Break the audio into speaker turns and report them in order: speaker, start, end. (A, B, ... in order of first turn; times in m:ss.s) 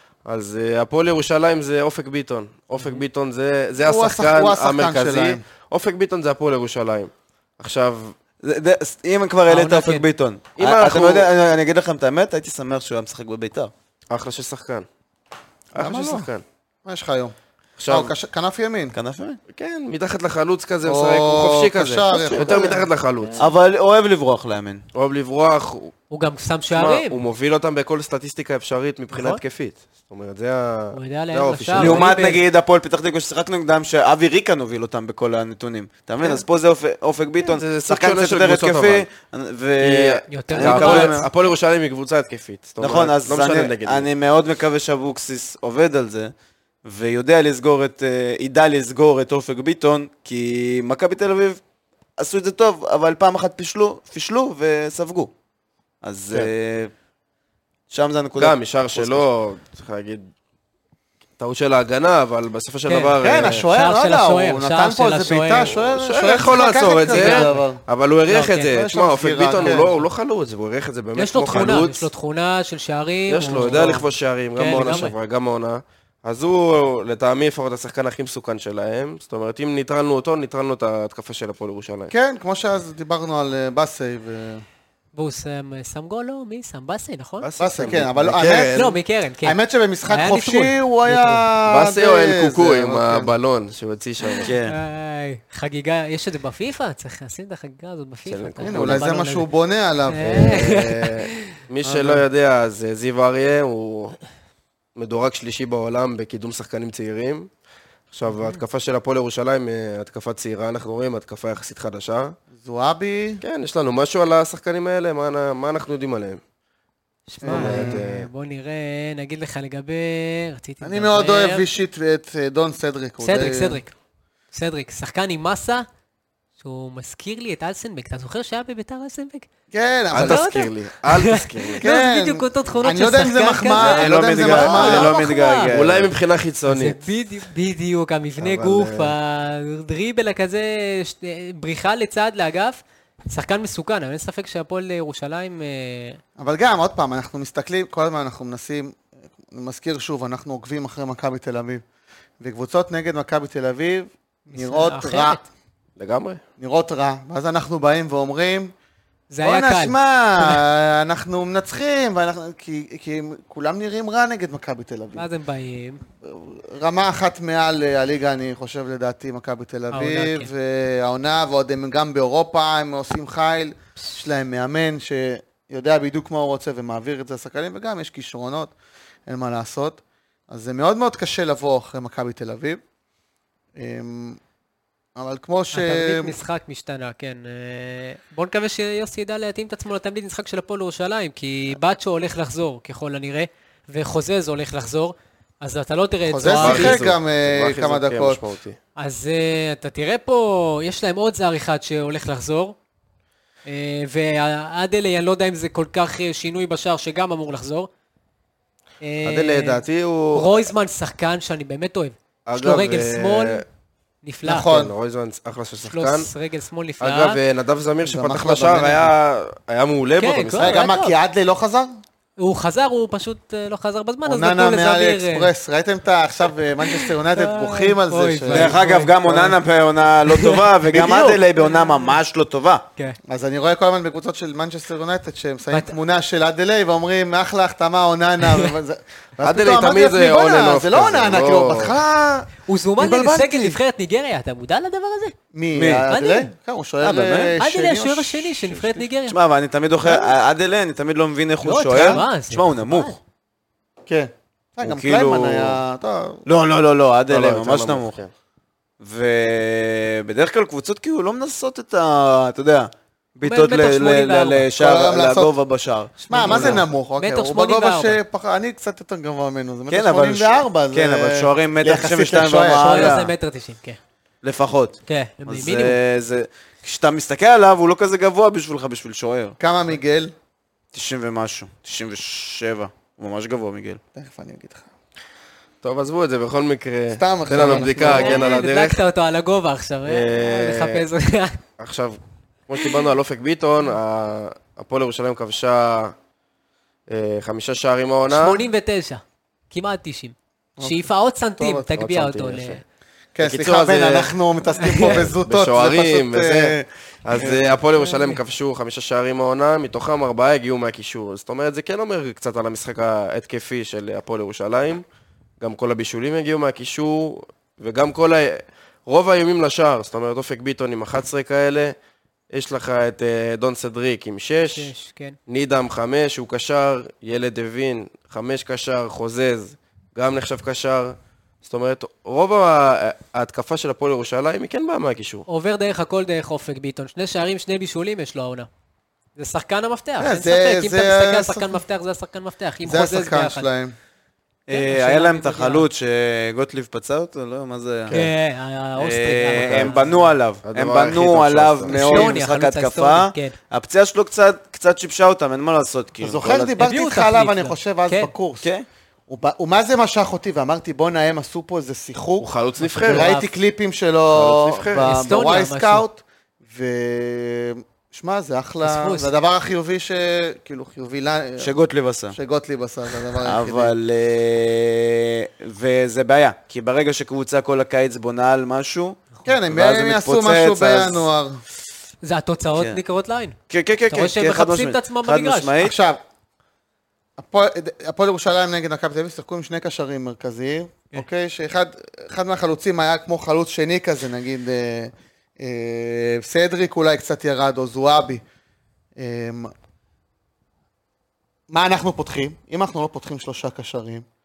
0:00.2-0:08.2 A
0:02.8-0:03.0 B
0:03.8-0:05.4 C
0:08.4-0:13.7 D
0:09.5-0:10.1 B
0:10.6-0:11.3 A
0:14.1-0:14.9 A
0:15.7-0:16.4 A
0:15.8-0:16.3 C
0:16.8-0:17.3 C
0:17.8-0:18.1 A
0:17.9-0:19.0 C
0:18.9-0:19.4 D
0:19.5-0:23.5 A
0:20.8-0:22.9 C
0:23.4-0:24.8 D
0:24.9-0:25.9 A
0:26.1-0:27.2 B
0:26.8-0:32.1 A
0:29.1-0:29.4 B
0:30.9-0:32.4 B
0:31.8-0:41.3 D
0:37.4-0:39.1 A
0:39.8-0:44.1 A
0:40.3-0:41.2 B
0:42.8-0:46.3 D
0:46.8-0:51.6 D
0:52.2-0:55.3 D
0:56.0-0:56.9 D
0:57.9-0:59.2 D
0:58.4-1:00.3 A
1:01.4-1:03.7 A
1:02.9-1:05.7 B
1:03.2-1:07.8 C
1:05.7-1:12.1 A
1:07.1-1:07.6 B
1:08.3-1:08.7 B
1:08.7-1:09.9 C
1:09.6-1:10.0 B
1:11.2-1:15.1 B
1:13.3-1:22.1 A
1:22.1-1:24.6 C
1:25.1-1:27.5 B
1:27.4-1:29.0 A
1:27.6-1:28.8 C
1:28.8-1:29.6 B
1:29.4-1:33.3 C
1:30.1-1:31.4 B
1:31.7-1:34.5 A
1:34.2-1:39.5 B
1:34.4-1:34.8 D
1:38.3-1:39.1 A
1:38.6-1:40.7 C
1:40.1-1:41.6 B
1:40.3-1:44.2 A
1:41.8-1:42.2 C
1:45.0-1:47.5 A
1:48.1-1:52.4 A
1:48.3-1:48.6 B
1:52.5-1:53.4 C
1:53.4-1:56.4 A
1:57.3-2:01.6 B
1:57.4-1:58.0 C
1:57.4-1:58.3 A
2:00.8-2:03.8 C
2:03.2-2:03.9 B
2:04.5-2:05.9 B
2:06.6-2:09.5 B
2:09.7-2:10.6 C
2:10.1-2:11.9 A
2:10.2-2:15.7 B
2:11.8-2:15.1 C
2:13.8-2:16.1 D
2:14.2-2:14.4 A
2:15.7-2:17.0 A
2:16.7-2:26.2 B
2:18.4-2:19.1 A
2:26.4-2:31.8 C
2:32.4-2:35.4 C
2:34.5-2:35.4 B
2:36.0-2:36.4 A
2:36.6-2:38.7 C
2:39.3-2:40.6 B
2:39.4-2:45.3 C
2:45.2-2:46.0 B
2:46.2-2:58.7 C
2:49.9-2:50.5 B
2:59.3-3:02.8 C
3:03.8-3:04.4 C
3:05.2-3:06.4 C
3:05.7-3:17.0 B
3:16.3-3:18.5 C
3:16.5-3:18.8 A
3:19.0-3:22.8 B
3:23.7-3:27.9 B
3:29.0-3:33.6 B
3:29.2-3:30.7 A
3:32.5-3:33.6 A
3:34.2-3:34.8 B
3:34.4-3:34.9 C
3:34.7-3:36.3 A
3:35.8-3:37.4 B
3:37.0-3:40.8 A
3:38.0-3:39.1 C
3:40.2-3:41.2 B
3:40.6-3:41.9 C
3:42.4-3:45.5 B
3:44.2-3:49.6 C
3:46.8-3:49.2 B
3:48.5-3:52.8 D
3:50.3-3:52.2 B
3:50.9-3:51.4 C
3:53.3-4:03.8 C
3:55.7-3:56.0 B
3:58.4-3:58.7 B
3:59.4-4:02.0 A
4:02.7-4:05.4 B
4:05.5-4:09.1 C
4:05.8-4:06.0 D
4:06.1-4:06.5 B
4:07.0-4:07.5 D
4:07.6-4:09.4 B
4:09.3-4:13.2 D
4:11.6-4:13.2 B
4:12.0-4:12.2 C
4:14.1-4:16.4 C
4:14.8-4:15.8 D
4:16.5-4:18.2 D
4:17.3-4:18.3 A
4:19.0-4:26.8 D
4:23.4-4:24.7 B
4:24.8-4:25.5 C
4:26.2-4:28.2 B
4:26.3-4:33.2 C
4:29.9-4:33.3 D
4:32.8-4:34.0 B
4:34.4-4:39.6 D
4:35.1-4:36.0 B
4:39.6-4:40.3 C
4:40.9-4:44.0 D
4:44.2-4:44.9 C
4:45.8-4:49.0 A
4:47.2-4:48.5 C
4:47.6-4:51.6 B
4:50.1-4:51.1 A
4:51.8-4:56.2 A
4:57.1-4:58.6 A
4:58.3-5:02.8 B
5:00.8-5:01.9 C
5:02.0-5:02.8 A
5:03.4-5:07.8 C
5:03.4-5:04.4 A
5:04.8-5:05.2 B
5:05.1-5:15.0 A
5:15.6-5:22.0 A
5:22.5-5:24.9 A
5:24.7-5:25.4 B
5:25.5-5:35.5 A
5:35.5-5:38.7 B
5:39.4-5:43.7 B
5:40.2-5:41.8 C
5:42.8-5:44.0 C
5:44.7-5:48.1 D
5:44.7-5:45.9 B
5:48.1-5:50.3 B
5:49.0-5:56.7 D
5:50.6-5:52.3 A
5:51.9-5:53.6 B
5:56.2-5:58.7 C
5:56.8-5:58.3 B
5:59.3-6:02.5 C
6:02.4-6:03.3 A
6:02.8-6:03.5 B
6:03.0-6:11.7 C
6:04.3-6:05.2 A
6:05.0-6:06.0 B
6:08.8-6:09.3 B
6:11.6-6:12.4 D
6:12.3-6:13.9 C
6:13.4-6:21.3 D
6:19.4-6:21.6 C
6:22.2-6:23.6 B
6:22.8-6:23.0 D
6:23.7-6:26.0 D
6:24.1-6:25.7 B
6:25.8-6:26.2 C
6:27.4-6:38.4 C
6:39.2-6:39.7 C
6:41.7-6:44.3 C